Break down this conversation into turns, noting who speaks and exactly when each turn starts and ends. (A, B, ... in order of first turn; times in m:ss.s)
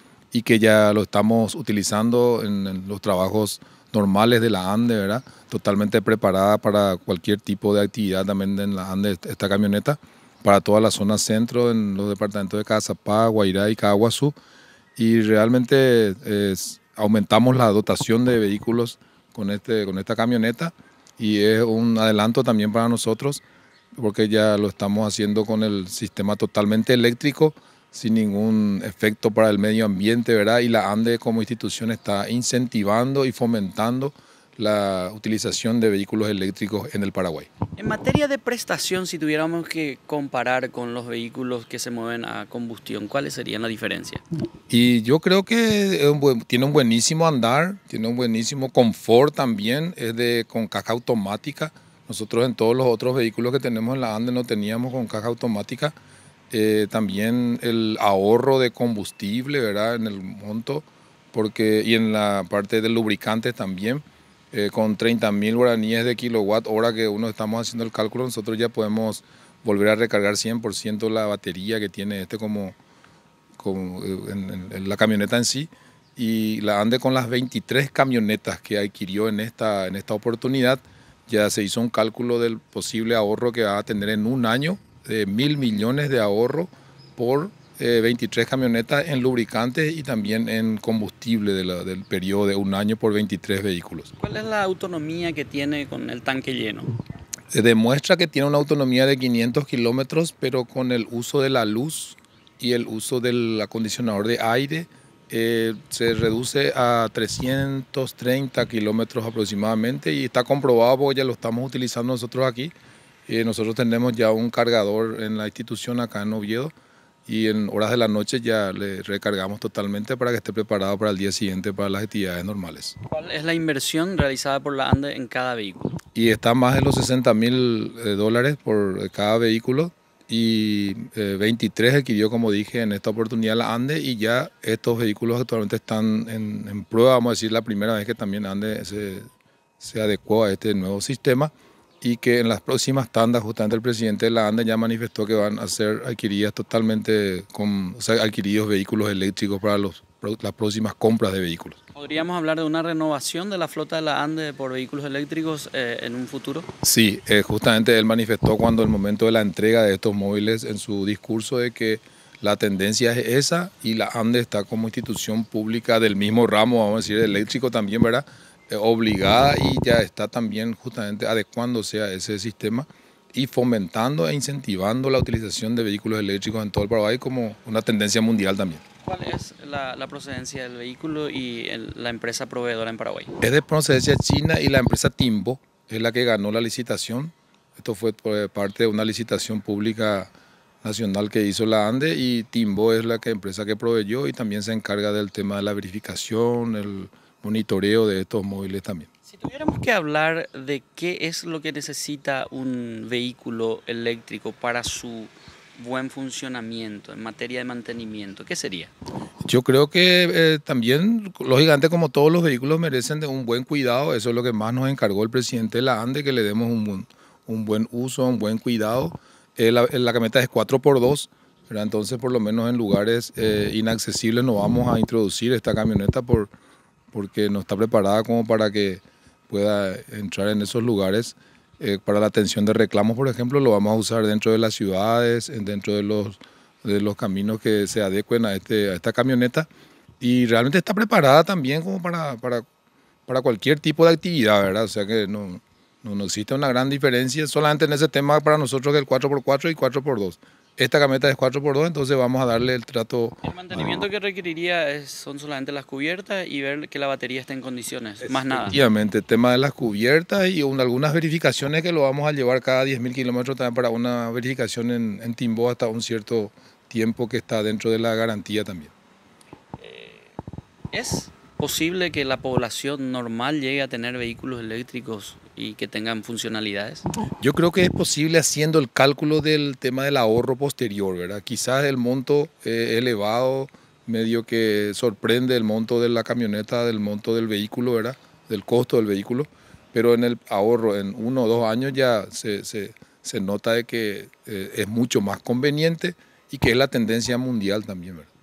0:00.3-0:14.3 A
0:15.0-0:23.4 A
0:24.0-0:37.5 A
0:37.8-0:44.2 B
0:44.7-0:55.9 A
0:56.5-1:12.8 A
1:13.6-1:34.1 A
1:34.2-1:36.9 B
1:37.5-1:52.7 A
1:53.3-1:56.7 A
1:57.3-2:03.0 A
2:03.1-2:06.0 B
2:06.1-2:19.3 A
2:19.8-2:31.8 A
2:31.9-2:36.7 B
2:36.8-2:58.8 A
2:59.0-3:03.3 B
3:03.4-3:10.3 A
3:10.8-3:19.1 A
3:19.3-3:28.9 B
3:29.4-3:46.5 A
3:47.1-3:59.6 A
4:00.2-4:02.6 A
4:03.3-4:14.0 A
4:13.4-4:18.8 B
4:18.5-4:28.9 A
4:29.8-4:30.3 B
4:30.9-4:37.0 B
4:37.4-4:58.3 A